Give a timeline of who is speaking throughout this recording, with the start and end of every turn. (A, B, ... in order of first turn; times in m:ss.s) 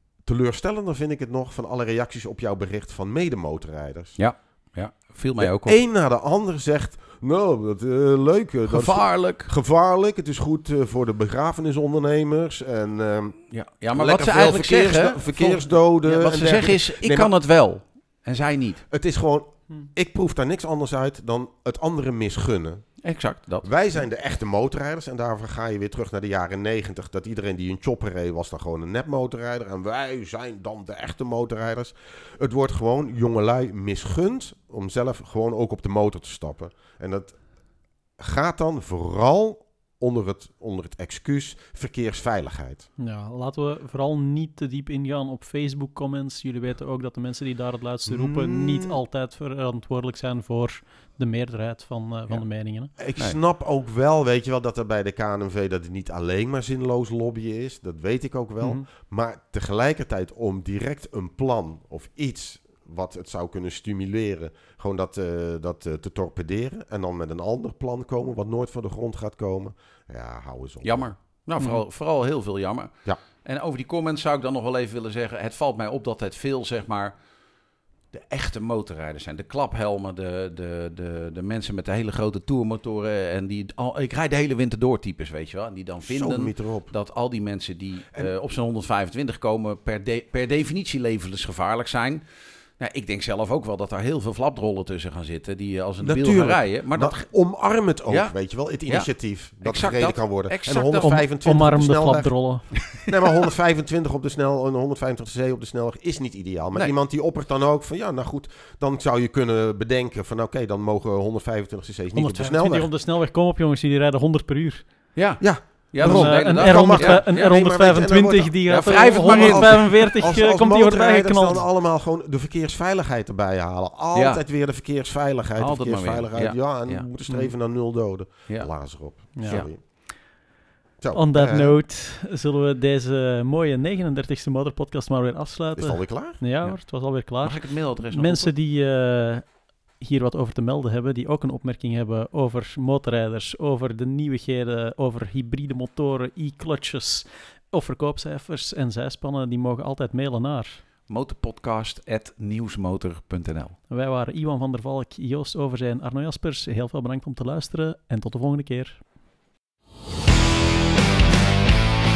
0:00.2-0:04.2 A
0:04.2-0:05.8 B
0:05.4-0:13.4 A
0:08.7-0:09.5 B
0:13.5-0:18.8 B
0:13.9-0:17.3 A
0:18.9-0:22.9 A
0:23.0-0:23.7 B
0:23.6-0:37.4 A
0:38.2-0:42.9 A
0:43.0-0:52.9 C
0:48.1-0:49.0 A
0:53.0-1:11.1 A
0:58.6-0:58.8 C
1:10.8-1:17.1 B
1:18.1-1:32.2 B
1:26.0-1:26.9 A
1:32.8-1:37.2 B
1:36.0-1:42.3 A
1:38.1-1:41.2 B
1:41.0-1:42.6 C
1:42.9-1:52.9 A
1:52.1-1:55.0 C
1:55.1-1:57.5 B
1:55.4-2:09.8 A
1:56.0-2:01.6 C
1:58.7-2:00.1 B
2:04.1-2:04.4 B
2:05.6-2:07.1 B
2:07.2-2:07.5 C
2:08.5-2:09.7 B
2:09.3-2:09.6 C
2:11.0-2:11.8 A
2:11.1-2:30.8 C
2:15.8-2:16.4 A
2:16.6-2:18.5 B
2:31.1-2:33.8 B
2:33.9-2:39.0 C